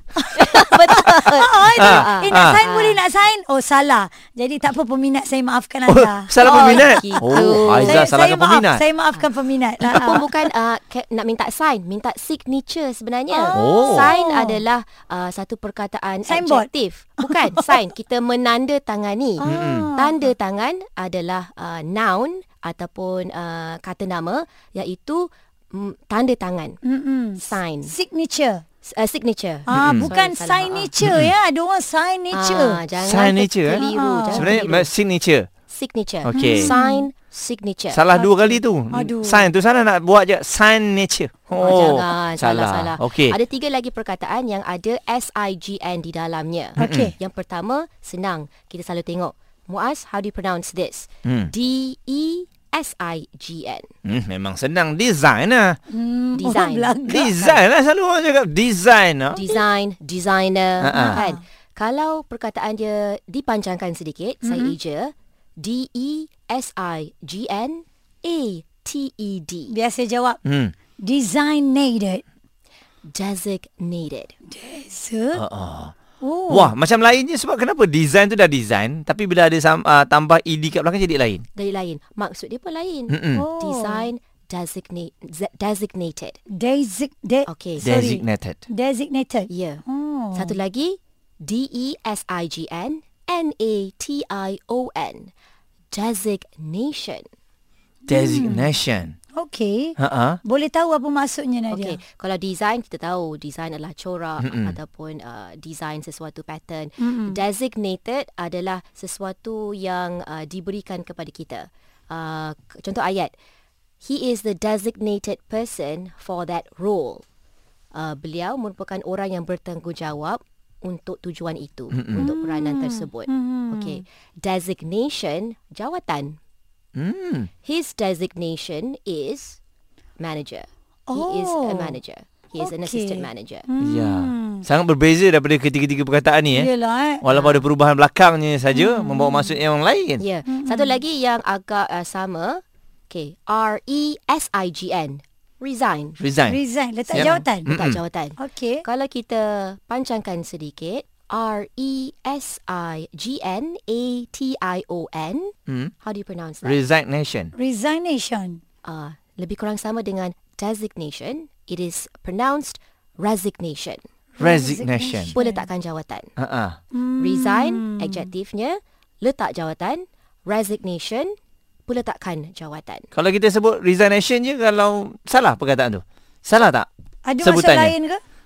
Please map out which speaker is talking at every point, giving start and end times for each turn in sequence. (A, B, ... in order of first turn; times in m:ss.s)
0:00.3-0:10.3 A
0:00.3-0:03.0 B
0:01.8-0:02.6 C
0:05.9-0:08.8 C
0:06.4-0:08.1 B
0:09.8-0:26.8 B
0:13.3-0:14.6 A
0:13.5-0:14.1 C
0:16.3-0:16.7 A
0:17.2-0:17.6 A
0:19.4-0:20.2 A
0:19.4-0:19.9 C
0:26.8-0:28.6 A
0:27.4-0:28.0 B
0:28.8-0:30.9 B
0:29.7-0:32.8 A
0:29.7-0:30.1 C
0:31.0-0:31.3 C
0:32.3-0:34.9 B
0:33.0-0:35.5 C
0:33.7-0:34.6 A
0:35.7-0:38.0 B
0:36.2-0:36.7 C
0:36.3-0:37.1 A
0:37.9-0:43.4 C
0:38.2-0:39.5 A
0:41.6-0:53.9 B
0:46.8-0:47.1 A
0:46.8-0:47.1 C
0:51.2-0:51.5 C
0:54.1-0:55.8 C
0:55.9-0:57.4 A
0:56.4-0:57.6 B
0:57.1-0:59.4 C
0:59.3-1:09.8 B
1:00.8-1:01.2 C
1:01.0-1:01.4 A
1:04.4-1:04.7 A
1:09.7-1:10.4 A
1:10.4-1:10.7 C
1:11.0-1:12.2 A
1:13.1-1:14.3 B
1:14.5-1:15.4 A
1:15.3-1:16.0 C
1:16.2-1:16.7 A
1:16.5-1:21.4 C
1:21.6-1:26.4 B
1:23.1-1:23.5 C
1:23.4-1:24.1 A
1:26.5-1:30.6 A
1:27.5-1:27.9 B
1:27.8-1:28.6 C
1:29.5-1:29.8 B
1:30.4-1:35.3 B
1:35.9-1:37.2 B
1:38.1-1:38.7 A
1:38.1-1:39.2 C
1:39.4-1:42.0 A
1:40.0-1:40.4 C
1:41.7-1:53.3 B
1:44.4-1:44.8 C
1:47.0-1:47.4 A
1:54.0-1:57.2 B
1:57.9-2:06.4 B
2:01.9-2:02.3 C
2:02.2-2:04.0 A
2:07.0-2:07.5 C
2:07.6-2:09.6 B
2:10.2-2:13.7 B
2:11.1-2:12.0 A
2:12.6-2:14.6 A
2:13.8-2:16.7 C
2:16.5-2:17.5 A
2:17.2-2:20.2 C
2:18.7-2:19.6 A
2:20.2-2:26.2 B
2:20.5-2:21.0 A
2:26.2-2:26.6 C
2:26.5-2:27.7 A
2:27.1-2:36.8 B
2:27.1-2:28.0 C
2:28.4-2:28.8 A
2:35.7-2:35.9 C
2:36.6-2:37.5 C
2:37.6-2:38.6 A
2:38.8-2:44.0 B
2:44.4-2:45.6 A
2:44.4-2:45.4 C
2:45.3-2:46.3 B
2:46.4-2:46.8 C
2:46.9-2:48.3 A
2:47.2-2:51.4 B
2:51.9-2:53.1 B
2:53.1-2:56.9 C
2:57.2-2:58.2 A
2:57.4-2:57.9 C